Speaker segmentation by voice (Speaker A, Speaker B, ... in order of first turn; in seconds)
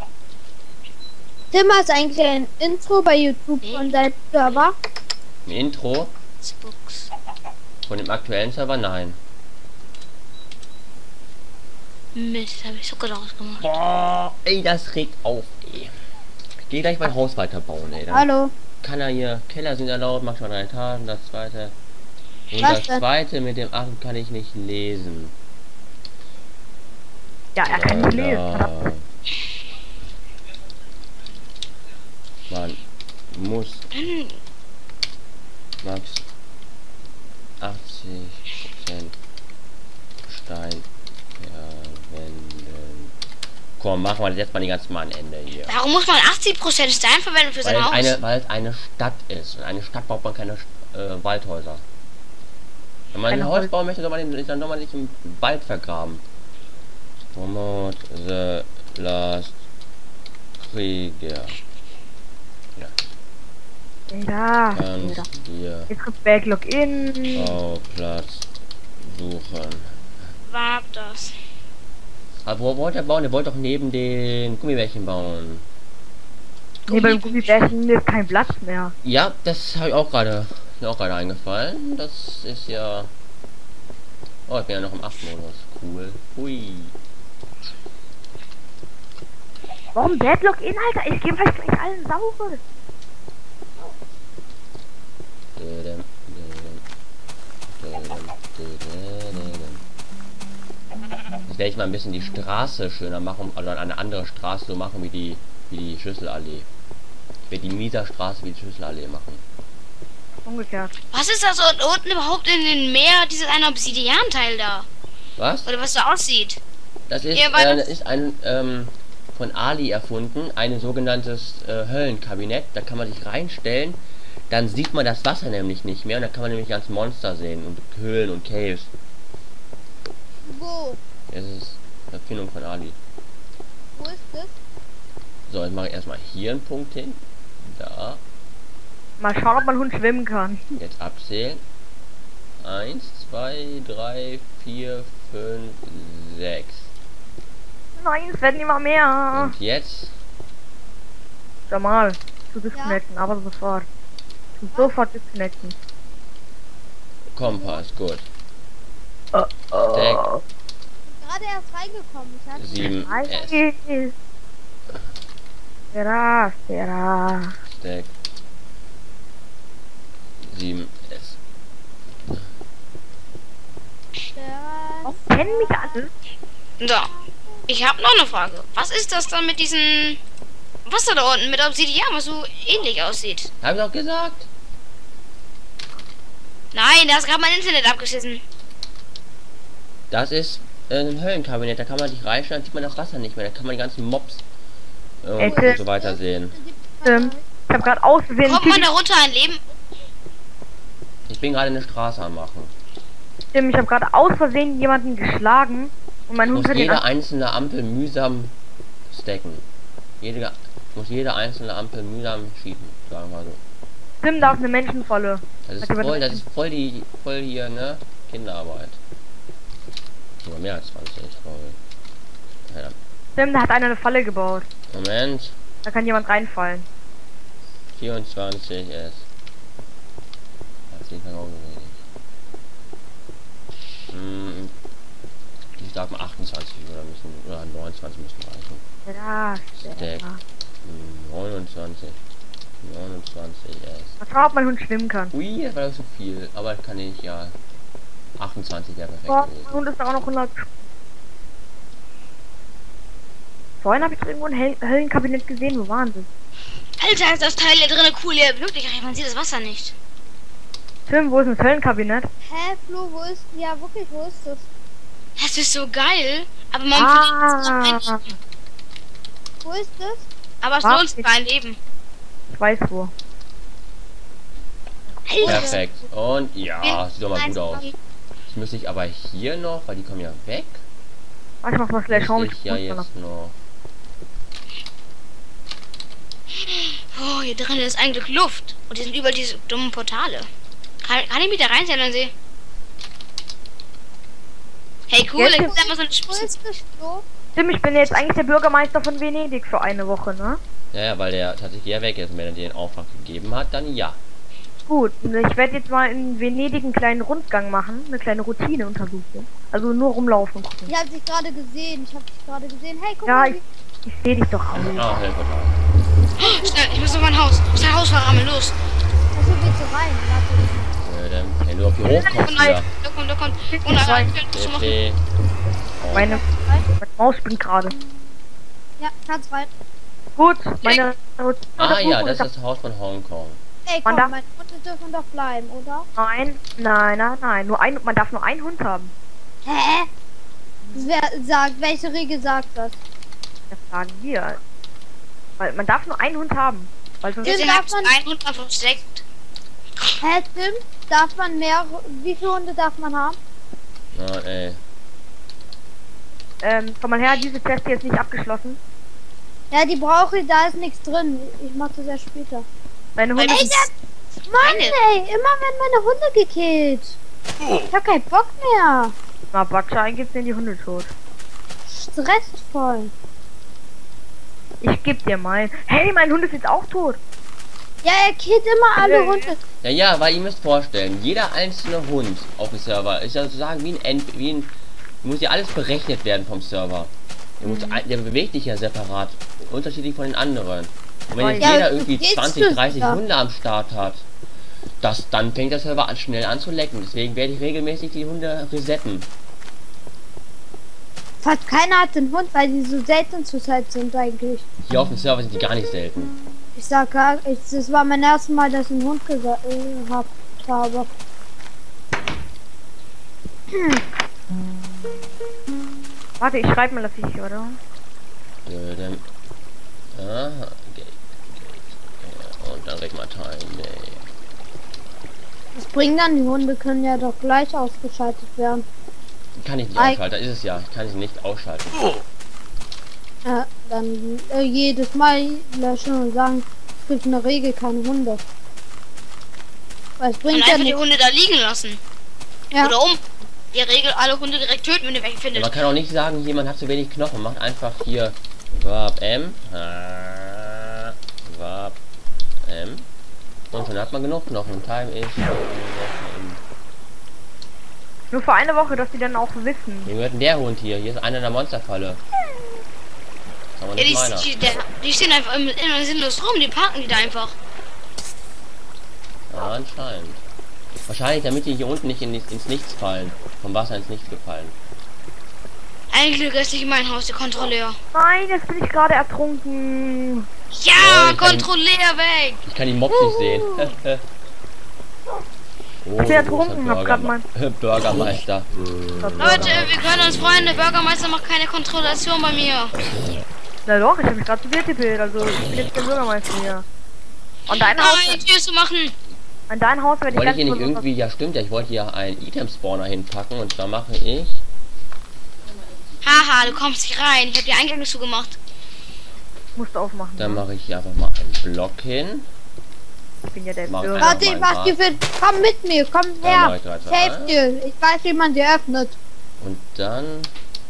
Speaker A: 1.5-4.8, 18.1-18.5, 22.6-23.0, 130.5-131.0, 134.0-134.6, 157.4-157.8, 161.1-163.2, 174.3-176.0, 177.0-177.9, 195.4-197.4, 262.5-264.7, 269.6-270.3, 295.4-297.2, 310.9-313.6, 316.4-317.2, 319.3-320.9, 326.1-326.9, 329.0-329.7, 333.9-336.1, 339.6-340.1, 340.9-343.0, 347.4-348.1, 350.2-353.4, 359.7-362.7, 364.5-367.2, 367.9-369.1, 371.9-373.1, 378.0-379.6, 391.6-393.2, 401.4-404.6, 406.8-411.1, 413.7-414.0, 425.8-428.9, 433.4-438.4, 440.2-441.0, 514.2-519.2
Speaker B: 3.6-3.9, 6.4-7.1, 12.2-13.6, 33.9-34.4, 45.7-48.2, 70.4-71.3, 76.9-77.7, 111.1-114.9, 115.7-116.6, 117.3-117.9, 176.8-177.1, 177.7-180.2, 180.9-183.5, 186.7-188.4, 198.4-199.6, 257.0-259.9, 265.4-268.3, 270.6-271.8, 275.3-275.8, 276.8-277.9, 286.6-290.5, 291.0-292.3, 295.1-296.5, 316.4-318.8, 322.3-325.0, 347.4-349.2, 363.4-363.9, 364.6-365.0, 440.5-442.0, 442.8-445.8, 464.0-467.6, 476.1-478.0, 480.7-482.6, 483.2-483.8, 489.4-492.9, 497.7-499.1, 506.2-508.6
Speaker C: 5.5-6.1, 7.9-9.2, 13.6-15.9, 16.7-18.3, 18.8-21.8, 22.5-25.4, 27.6-29.0, 32.5-32.8, 33.3-33.9, 35.8-36.3, 37.6-39.2, 40.3-40.9, 41.4-43.1, 43.8-45.8, 47.6-51.8, 53.1-56.2, 57.3-59.6, 60.6-61.6, 62.8-63.0, 64.7-65.9, 67.3-68.5, 69.0-70.0, 72.5-75.7, 79.0-83.1, 84.5-87.0, 95.6-96.8, 97.8-99.8, 101.5-106.7, 107.5-109.4, 115.4-115.7, 117.1-128.9, 131.3-133.0, 135.5-138.2, 140.8-141.6, 142.6-146.9, 149.3-150.2, 157.3-158.3, 159.9-160.2, 162.6-163.6, 167.7-168.1, 170.4-171.4, 183.6-184.5, 190.1-194.4, 195.2-196.6, 201.3-202.7, 206.4-208.5, 209.1-209.7, 210.2-213.6, 215.7-219.0, 220.4-221.8, 222.7-223.0, 224.9-225.6, 228.0-229.3, 230.9-232.0, 234.1-234.7, 235.8-238.8, 239.8-240.2, 240.8-242.2, 242.8-244.2, 245.3-247.6, 248.4-249.7, 275.4-277.9, 278.5-280.8, 282.1-283.6, 300.9-304.2, 314.8-315.8, 321.0-322.9, 324.5-325.2, 326.0-326.3, 331.8-333.6, 354.1-354.8, 379.8-394.3, 395.0-399.3, 404.9-406.4, 418.7-419.2, 420.1-424.2, 429.6-432.1, 445.5-452.0, 452.6-453.1, 453.7-456.6, 460.1-462.2, 463.8-464.5, 469.5-470.4, 471.1-474.8, 480.9-481.7, 482.7-484.2, 486.0-488.7, 489.4-490.0, 500.3-504.6, 510.4-512.5, 513.9-515.0, 516.4-517.6, 519.6-520.5
Speaker D: 27.6-28.7, 53.3-53.7, 64.1-65.3, 65.9-67.6, 76.9-79.0, 90.0-92.6, 110.4-110.9, 139.2-140.8, 148.0-149.6, 151.7-153.9, 154.6-155.8, 159.3-160.4, 163.1-164.1, 165.9-167.5, 175.1-176.1, 195.4-195.8, 197.1-198.9, 203.5-207.0, 214.2-216.4, 223.4-224.7, 225.8-226.9, 239.1-240.4, 244.2-245.3, 249.3-250.7, 253.8-256.3, 261.1-262.3, 266.9-268.2, 270.8-271.3, 272.5-273.1, 275.4-275.8, 281.6-283.1, 295.4-295.7, 297.6-300.6, 304.9-310.9, 313.3-315.2, 322.2-322.8, 323.7-324.3, 326.1-327.9, 330.4-332.5, 334.1-334.3, 336.2-339.1, 340.9-341.1, 343.7-344.6, 345.6-347.6, 356.6-358.8, 363.2-363.9, 369.5-371.1, 374.8-377.2, 379.0-379.5, 387.6-388.0, 391.3-391.7, 416.4-417.8, 458.3-460.1, 478.1-480.5, 486.2-487.4, 489.2-489.8, 493.9-496.9, 497.7-498.4, 499.7-501.0, 509.8-510.6, 513.5-514.4